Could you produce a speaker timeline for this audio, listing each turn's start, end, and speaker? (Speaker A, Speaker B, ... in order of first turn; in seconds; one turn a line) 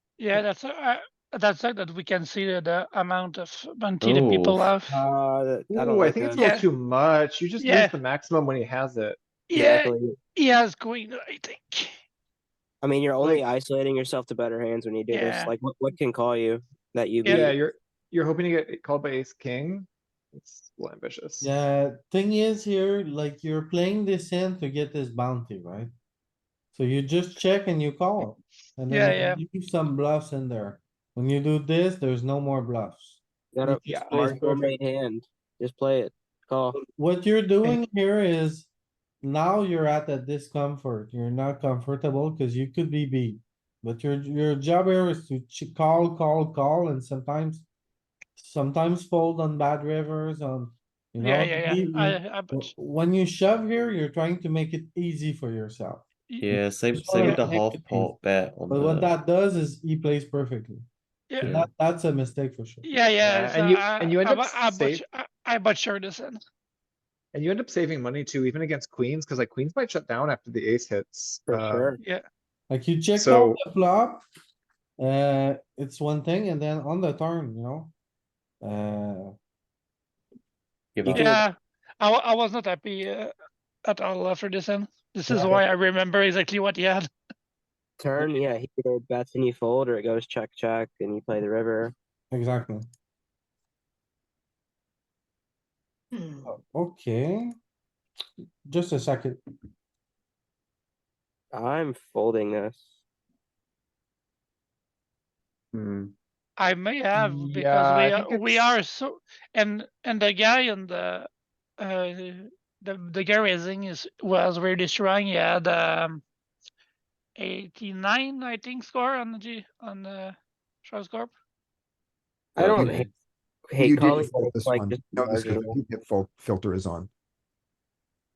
Speaker A: 0.2-5.0
Speaker B: 4.0-4.7
Speaker C: 4.9-6.5
Speaker D: 5.7-9.2
Speaker A: 6.4-6.7
Speaker A: 7.6-8.0
Speaker A: 9.5-11.9
Speaker C: 9.5-10.2
Speaker C: 12.8-17.6
Speaker A: 15.1-15.5
Speaker A: 17.2-17.5
Speaker D: 17.3-21.5
Speaker E: 21.4-25.9
Speaker E: 26.7-34.7
Speaker A: 28.9-29.4
Speaker C: 33.5-36.8
Speaker D: 33.9-34.4
Speaker E: 37.0-38.7
Speaker E: 39.2-47.7
Speaker E: 48.4-56.1
Speaker A: 51.2-52.7
Speaker A: 56.3-56.5
Speaker B: 56.4-59.2
Speaker E: 56.9-58.1
Speaker E: 58.7-60.9
Speaker A: 61.3-61.5
Speaker E: 61.4-62.9
Speaker B: 61.4-61.7
Speaker A: 62.8-66.4
Speaker D: 63.2-65.0
Speaker D: 67.3-72.0
Speaker C: 71.5-72.0
Speaker A: 72.0-72.2
Speaker E: 72.7-74.2
Speaker D: 73.2-73.6
Speaker E: 75.0-77.9
Speaker E: 78.6-79.3
Speaker B: 81.0-81.3
Speaker C: 81.1-81.4
Speaker A: 81.1-83.3
Speaker A: 83.8-87.1
Speaker E: 85.3-85.6
Speaker C: 88.0-91.9
Speaker E: 92.3-92.9
Speaker E: 96.5-97.5
Speaker E: 98.7-99.4
Speaker C: 101.5-102.9
Speaker B: 105.8-106.1
Speaker A: 106.6-111.3
Speaker D: 107.1-108.8
Speaker A: 111.8-116.2
Speaker A: 117.4-121.3
Speaker C: 122.6-123.1
Speaker B: 122.6-123.0
Speaker C: 123.7-125.7
Speaker F: 123.8-127.1